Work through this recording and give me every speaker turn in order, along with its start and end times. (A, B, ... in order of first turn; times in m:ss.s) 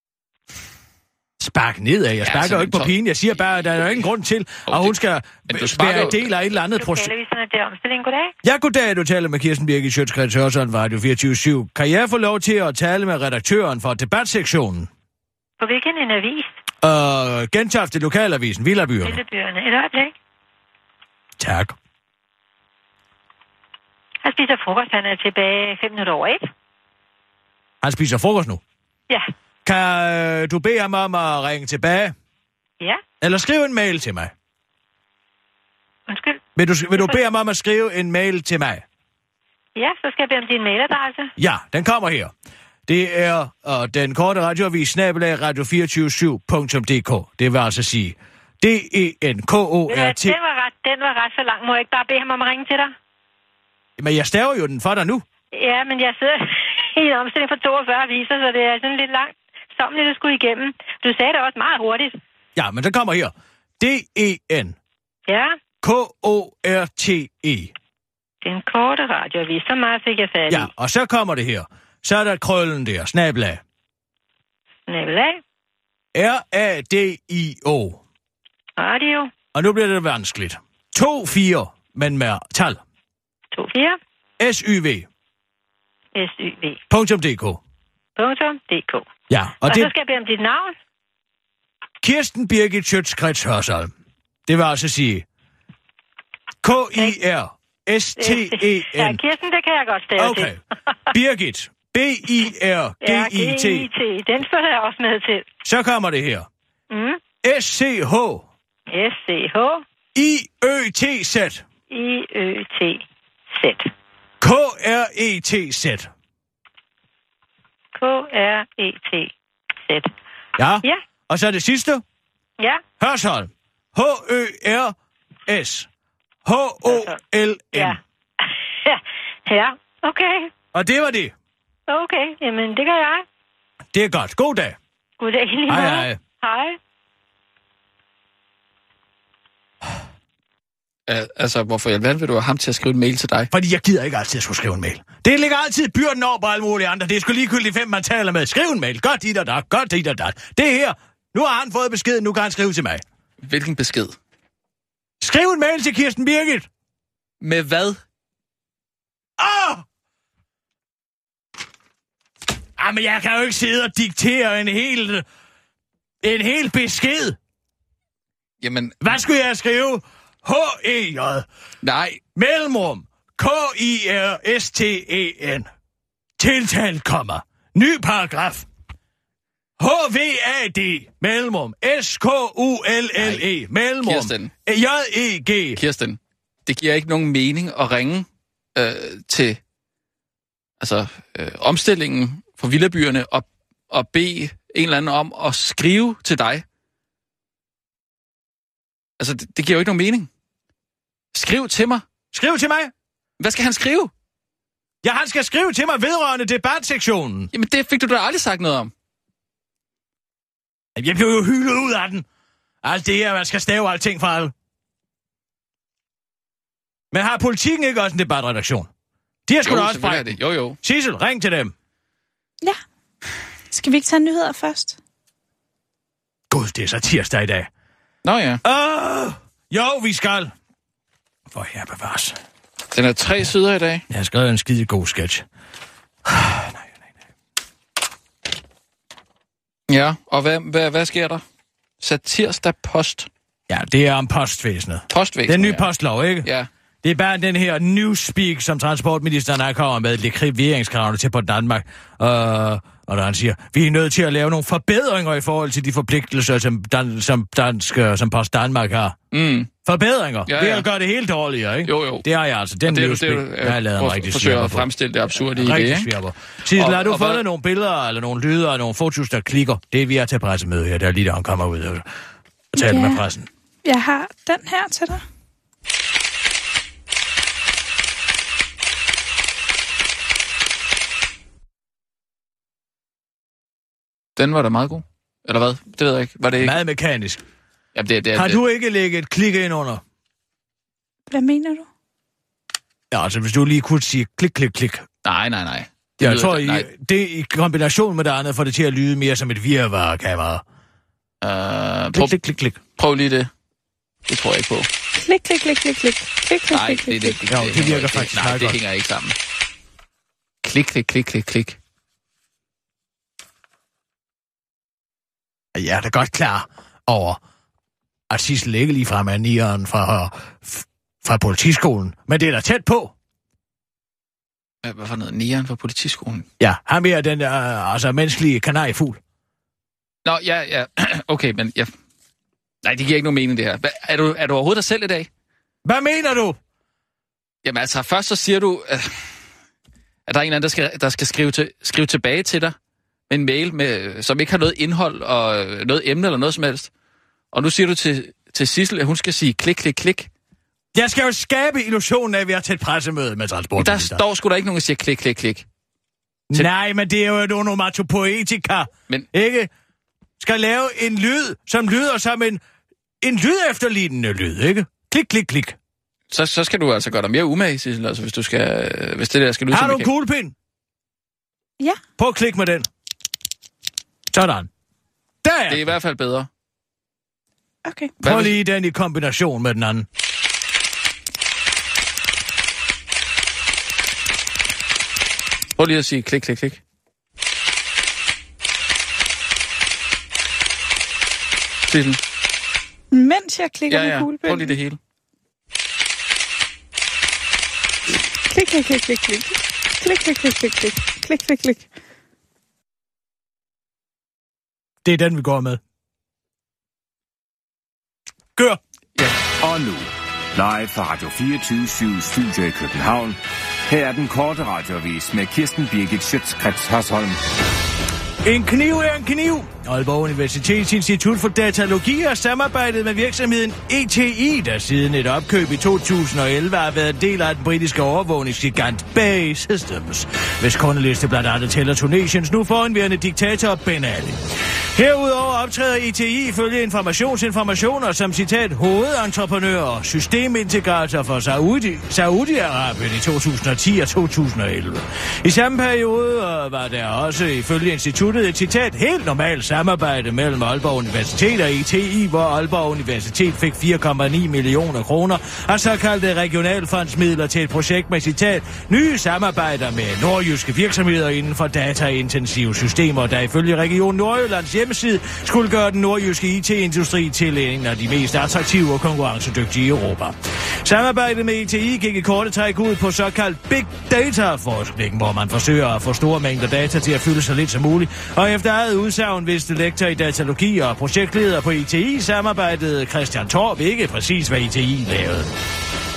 0:01.4-0:07.1 A
0:02.2-0:03.0 B
0:04.7-0:06.3 B
0:06.8-0:08.3 C
0:08.4-0:14.9 A
0:15.6-0:16.5 C
0:16.8-0:19.2 A
0:19.0-0:20.1 C
0:21.4-0:21.8 A
0:24.2-0:26.4 C
0:27.8-0:28.6 A
0:29.6-0:32.1 A
0:33.2-0:34.3 A
0:36.1-0:36.4 C
0:36.6-0:38.8 A
0:39.8-0:41.3 C
0:41.4-0:42.3 A
0:42.9-0:50.4 A
0:49.9-0:52.9 C
0:54.0-0:55.2 A
0:55.5-1:02.2 C
1:02.6-1:04.8 A
1:05.3-1:05.6 C
1:05.8-1:07.7 A
1:08.4-1:10.7 C
1:10.5-1:13.6 A
1:14.9-1:15.4 C
1:16.1-1:18.0 A
1:18.8-1:19.3 C
1:19.5-1:22.8 A
1:23.5-1:24.0 C
1:24.4-1:25.0 A
1:26.1-1:26.8 C
1:26.9-1:27.6 A
1:28.2-1:29.0 C
1:29.3-1:29.9 A
1:29.7-1:30.7 C
1:32.0-1:33.9 A
1:34.5-1:35.2 A
1:36.6-1:39.2 A
1:38.2-1:40.5 C
1:40.2-1:40.6 A
1:41.1-1:43.9 A
1:43.0-1:45.5 C
1:45.6-1:46.5 A
1:46.9-1:47.2 C
1:47.4-1:48.5 A
1:48.9-1:49.8 C
1:50.1-1:51.6 A
1:51.9-1:53.9 C
1:54.4-1:56.1 A
1:58.0-1:59.3 C
2:00.6-2:02.0 A
2:03.0-2:04.9 A
2:05.5-2:05.9 A
2:06.4-2:08.0 A
2:06.9-2:07.2 C
2:08.8-2:10.5 C
2:10.7-2:11.3 A
2:11.9-2:13.2 C
2:13.9-2:14.8 A
2:15.2-2:16.8 C
2:15.7-2:16.2 A
2:21.1-2:23.5 B
2:23.5-2:33.0 A
2:33.4-2:34.2 B
2:35.2-2:36.7 A
2:37.4-2:38.0 B
2:39.4-2:39.8 A
2:42.8-2:45.2 A
2:46.2-2:47.4 A
2:48.6-2:49.0 B
2:49.0-2:51.4 A
2:51.8-2:52.2 B
2:52.3-2:55.7 A
2:56.4-2:58.7 A
2:59.8-3:05.8 A
3:03.2-3:03.4 B
3:04.0-3:04.5 B
3:05.8-3:09.6 B
3:10.8-3:16.6 B
3:19.2-3:20.3 B
3:21.3-3:22.0 B
3:22.3-3:22.9 A
3:23.4-3:24.1 B
3:25.0-3:27.5 A
3:27.5-3:28.9 B
3:31.0-3:32.2 A
3:32.8-3:34.5 A
3:37.1-3:38.9 A
3:39.5-3:41.7 A
3:39.6-3:40.8 B
3:43.7-3:45.0 D
3:46.5-3:47.7 A
3:48.2-3:48.6 B
3:48.6-3:50.5 A
3:51.5-3:52.4 A
3:52.9-3:54.0 B
3:54.1-3:55.4 A
3:56.2-3:56.9 A
3:59.9-4:01.4 B
4:02.0-4:03.3 B
4:03.7-4:06.5 A
4:05.1-4:05.9 B
4:06.4-4:06.7 B
4:07.0-4:19.2 A
4:19.3-4:19.7 B
4:19.8-4:32.0 A
4:20.4-4:20.9 B
4:21.8-4:22.2 B
4:22.8-4:26.1 B
4:26.7-4:27.4 B
4:32.7-4:33.5 A
4:32.8-4:33.2 D
4:33.8-4:35.2 D
4:44.4-4:46.8 B
4:46.6-4:47.4 A
4:47.9-4:48.6 B
4:48.3-4:50.0 A
4:51.3-4:51.8 D
4:53.1-4:55.0 A
4:55.2-4:56.9 B
4:56.2-5:00.6 A
5:01.4-5:02.3 B
5:02.1-5:02.8 A
5:03.0-5:03.5 B
5:04.3-5:04.9 B
5:05.2-5:07.4 D
5:06.7-5:09.3 B
5:07.5-5:08.8 A
5:10.6-5:11.8 B
5:15.7-5:17.4 A
5:18.3-5:23.1 A
5:24.8-5:26.5 B
5:26.6-5:29.2 A
5:30.2-5:31.9 B
5:32.8-5:35.3 B
5:35.8-5:36.6 A
5:37.6-5:39.4 B
5:40.3-5:42.8 B
5:43.3-5:46.9 B
5:47.5-5:50.3 B
5:50.9-5:54.2 A
5:53.8-5:55.6 B
5:56.5-5:59.7 A
6:00.4-6:02.6 A
6:03.2-6:05.8 A
6:06.3-6:10.1 B
6:09.7-6:10.5 A
6:12.2-6:12.9 A
6:14.3-6:14.7 A
6:15.4-6:15.8 A
6:15.7-6:16.5 B
6:17.8-6:18.2 D
6:18.2-6:18.6 B
6:18.2-6:20.0 A
6:25.8-6:26.8 B
6:31.9-6:32.2 B
6:33.1-6:34.8 D
6:33.9-6:35.0 B
6:38.5-6:41.9 D
6:45.0-6:45.8 A
6:49.6-6:57.4 E
6:58.4-7:14.4 A
7:14.9-8:05.5 A